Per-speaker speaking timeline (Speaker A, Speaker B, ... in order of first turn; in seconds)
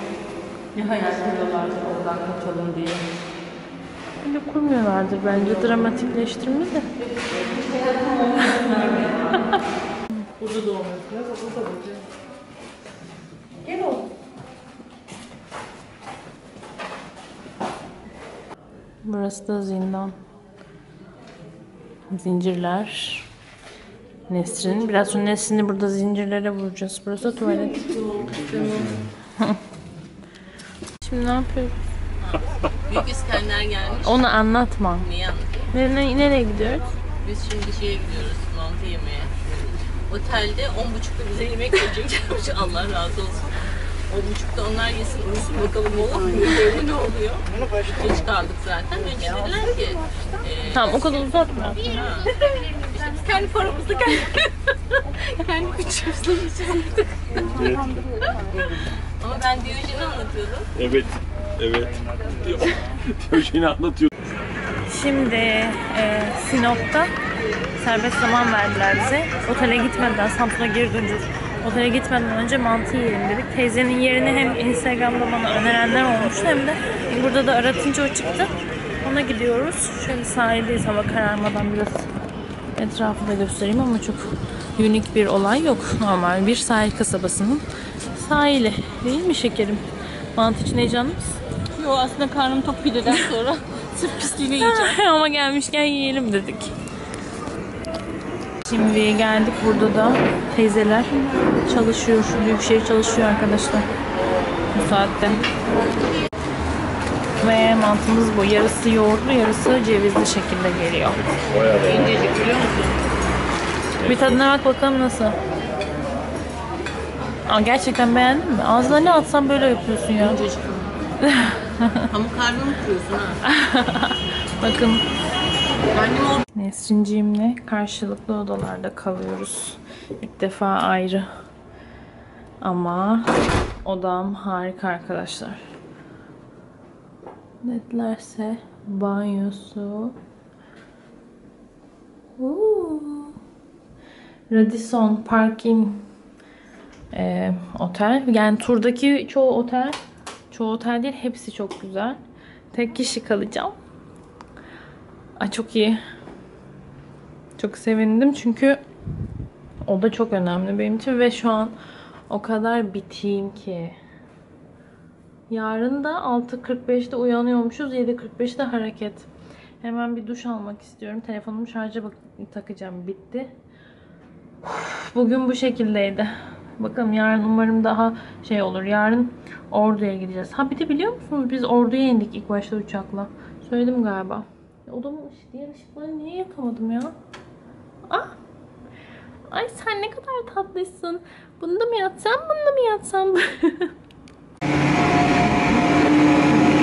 Speaker A: 0.7-3.1, 7.8-9.3, 27.7-29.0, 32.9-34.2, 35.0-35.7, 37.2-43.5, 44.1-57.1, 59.2-60.7, 91.7-94.9, 111.8-113.0, 120.2-120.9, 122.1-123.4, 125.9-126.4
Speaker B: 4.2-6.9, 8.4-8.7, 9.3-9.6, 10.1-11.2, 13.6-14.0, 19.0-20.1, 22.1-23.3, 24.3-27.9, 31.0-31.8, 34.0-35.1, 35.7-36.8, 50.7-52.0, 64.8-67.1, 67.8-82.1, 82.8-91.4, 94.5-96.7, 98.6-101.1, 101.6-103.9, 104.7-105.4, 107.4-111.3, 114.0-115.3, 117.5-120.4, 121.2-122.0, 123.5-125.0, 126.5-131.3, 132.6-133.3, 133.8-135.6, 137.6-140.1, 142.3-143.4, 144.5-146.0, 147.1-150.0, 150.5-152.2, 152.7-153.8, 155.4-156.0, 157.6-158.8, 159.8-161.8, 162.3-164.0, 165.5-169.3, 169.8-173.5, 174.6-187.1, 188.1-188.3, 189.5-193.9, 195.5-195.8
Speaker C: 57.4-57.9, 60.7-64.1, 111.5-112.3, 114.0-114.4